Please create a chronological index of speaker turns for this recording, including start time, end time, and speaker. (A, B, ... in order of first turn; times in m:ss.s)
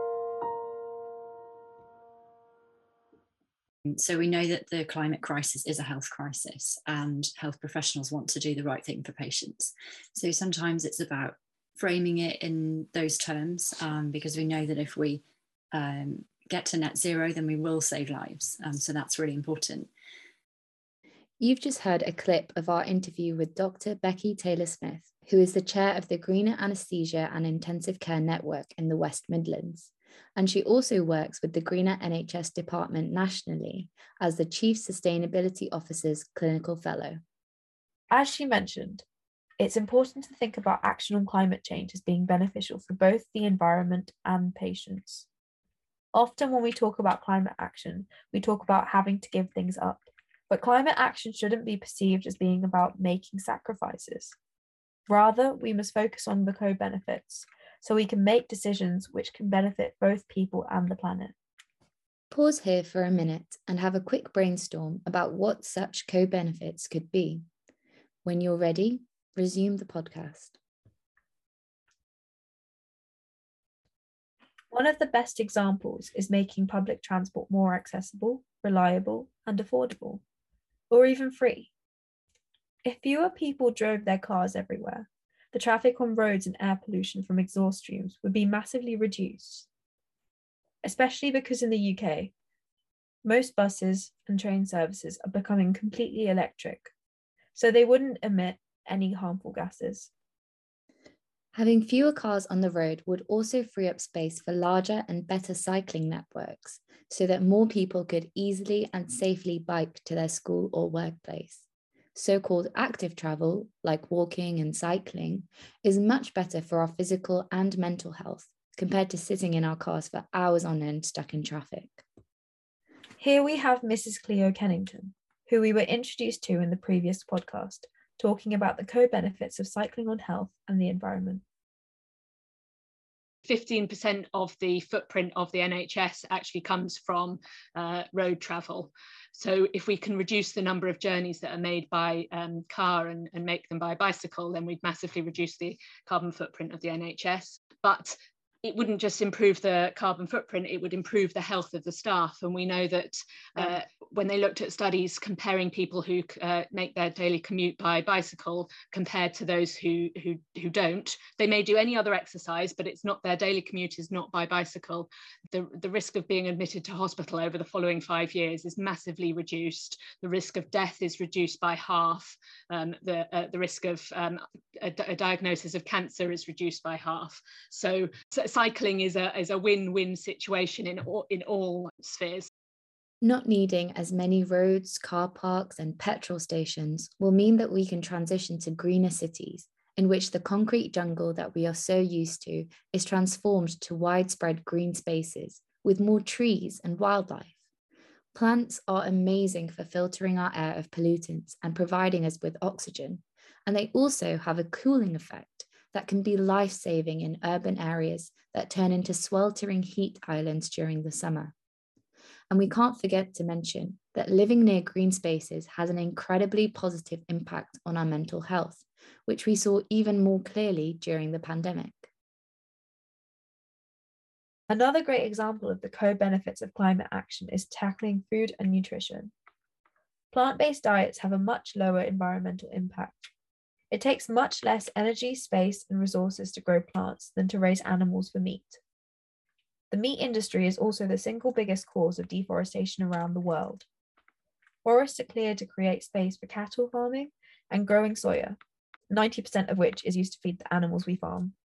0:03.9-0:19.9 A
0:21.4-0:37.2 B
0:38.1-0:39.0 C
0:39.6-0:45.3 C
0:46.1-0:54.3 C
0:55.1-1:01.3 C
1:02.3-1:07.4 B
1:08.2-1:10.6 B
1:14.7-1:20.2 C
1:20.9-1:21.7 C
1:22.8-1:29.7 C
1:30.8-1:32.3 C
1:33.2-1:36.9 C
1:37.5-1:40.1 C
1:41.5-1:51.6 B
1:52.1-2:02.0 B
2:03.2-2:11.4 C
2:13.4-3:02.5 D
3:03.2-3:17.6 B
3:18.3-3:31.5 B
3:32.5-3:42.1 B
3:44.7-3:49.3 C
3:50.3-3:53.3 C
3:53.9-3:58.8 C
3:59.9-4:03.8 C
4:04.8-4:08.6 C
4:09.1-4:11.5 C